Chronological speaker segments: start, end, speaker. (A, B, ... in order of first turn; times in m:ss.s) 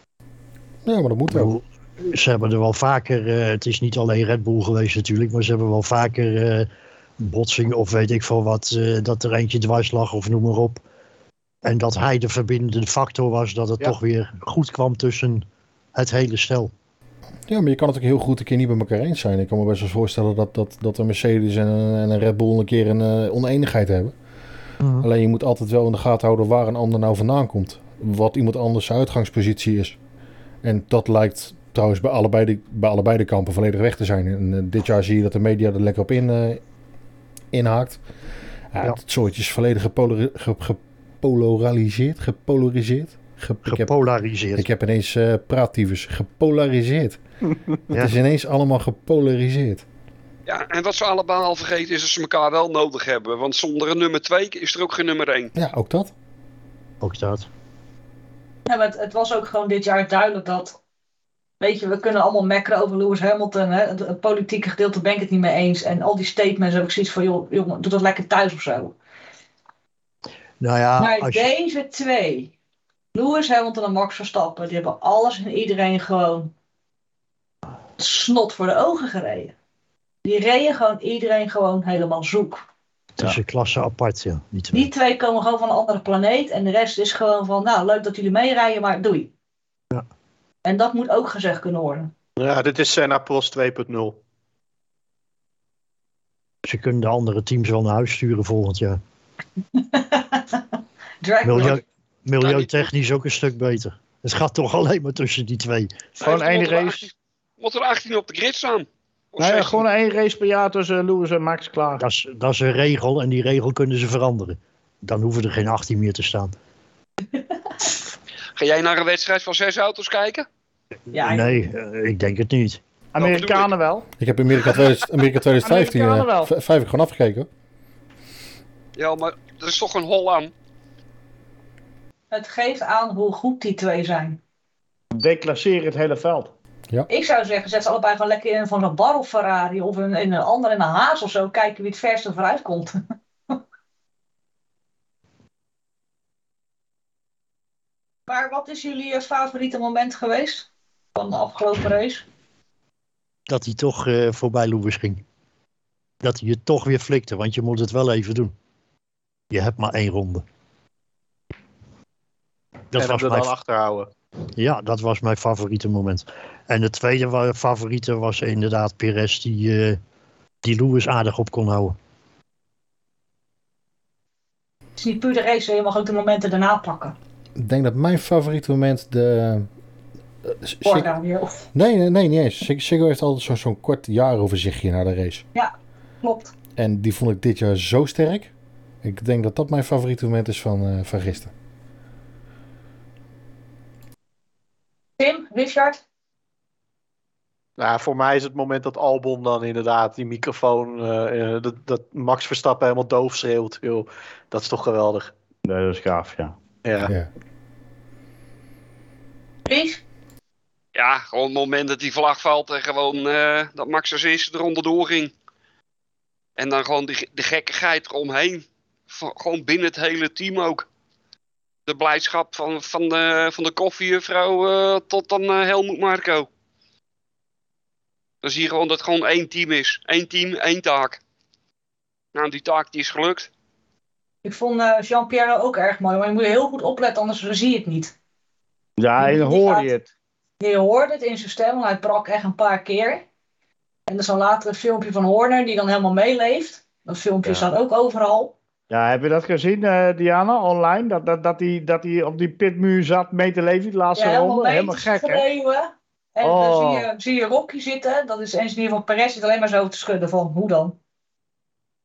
0:00.8-0:01.5 A
0:01.3-0:06.7 B
0:07.2-0:10.8 B
0:11.6-0:16.7 B
0:17.5-0:24.1 A
0:24.8-0:25.1 B
0:25.0-0:30.0 A
0:30.6-0:36.6 A
0:37.5-0:38.0 A
0:38.7-0:43.9 A
0:43.6-0:44.6 B
0:44.6-0:47.2 A
0:47.9-0:49.8 A
0:50.4-0:55.5 C
0:55.5-0:56.1 A
0:57.0-0:57.5 B
0:58.6-1:00.8 D
1:01.6-1:09.0 D
1:10.6-1:11.5 B
1:11.0-1:12.5 D
1:13.1-1:16.5 D
1:18.0-1:19.5 D
1:20.2-1:22.6 D
1:23.2-1:24.9 B
1:24.7-1:29.3 D
1:30.6-1:32.1 D
1:32.4-1:34.2 E
1:36.6-1:39.0 B
1:39.8-1:40.6 D
1:41.2-1:41.8 D
1:41.4-1:46.1 B
1:46.2-1:49.8 C
1:46.2-1:47.1 F
1:49.4-1:52.0 F
1:52.0-1:56.5 B
1:58.6-2:00.5 C
2:01.1-2:02.8 B
2:01.1-2:01.5 D
2:03.1-2:04.1 F
2:03.2-2:03.7 C
2:04.2-2:07.5 A
2:05.6-2:06.5 F
2:09.0-2:10.5 C
2:12.3-2:14.4 D
2:15.1-2:16.5 F
2:17.1-2:23.0 D
2:28.3-2:32.2 D
2:33.5-2:35.2 B
2:36.2-2:38.5 B
2:39.5-2:40.4 B
2:42.9-2:43.5 B
2:42.9-2:44.1 E
2:44.6-2:50.0 B
2:50.6-2:52.0 B
2:55.0-2:57.2 D
2:57.6-2:59.7 A
3:00.4-3:01.1 A
3:00.8-3:01.6 D
3:01.7-3:05.4 A
3:05.5-3:06.5 D
3:06.8-3:08.5 A
3:09.0-3:11.5 A
3:15.2-3:16.0 D
3:17.8-3:25.3 E
3:25.6-3:26.5 F
3:26.8-3:27.1 E
3:29.6-3:30.0 D
3:30.9-3:35.3 C
3:36.6-3:40.9 C
3:41.9-3:46.5 C
3:48.4-3:51.2 C
3:52.3-3:53.5 C
3:54.4-3:58.1 D
3:59.0-4:00.1 F
3:59.2-3:59.9 D
4:00.6-4:03.2 D
4:04.1-4:08.6 D
4:08.9-4:15.4 F
4:14.1-4:21.0 D
4:16.4-4:17.1 F